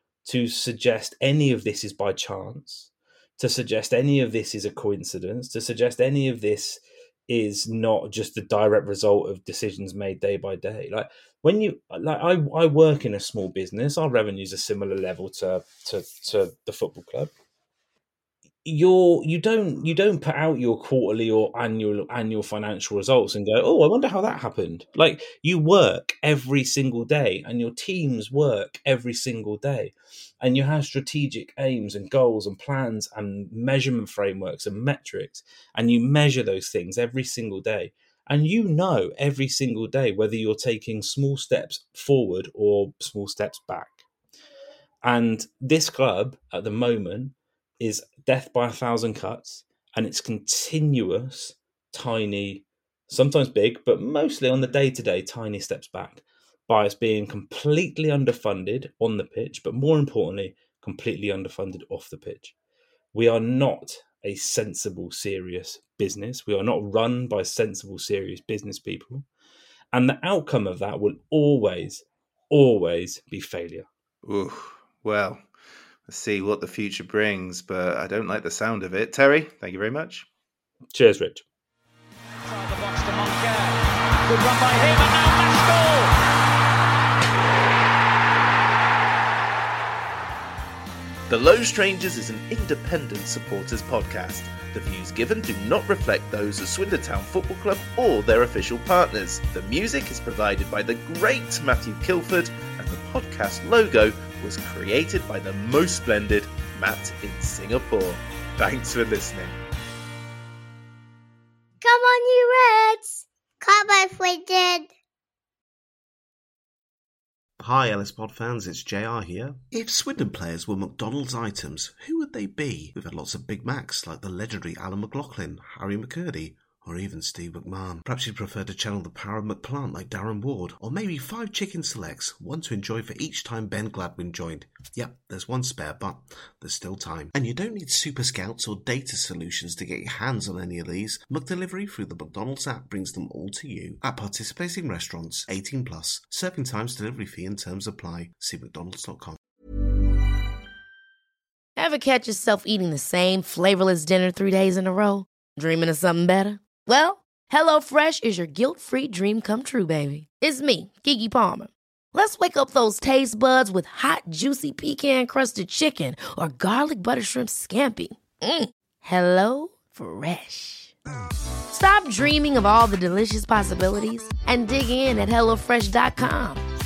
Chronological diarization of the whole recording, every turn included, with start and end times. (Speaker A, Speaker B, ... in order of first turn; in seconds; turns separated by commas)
Speaker A: 0.2-17.3, Speaker A: 18.6-44.0, Speaker A: 45.0-62.5, Speaker A: 63.1-69.3, Speaker A: 69.9-73.9, Speaker B: 74.2-75.4, Speaker B: 76.1-80.3, Speaker A: 80.9-81.4, Speaker C: 82.5-86.1, Speaker B: 91.3-109.6, Speaker D: 111.8-114.9, Speaker E: 117.6-149.4, Speaker F: 151.8-170.9, Speaker F: 171.7-176.6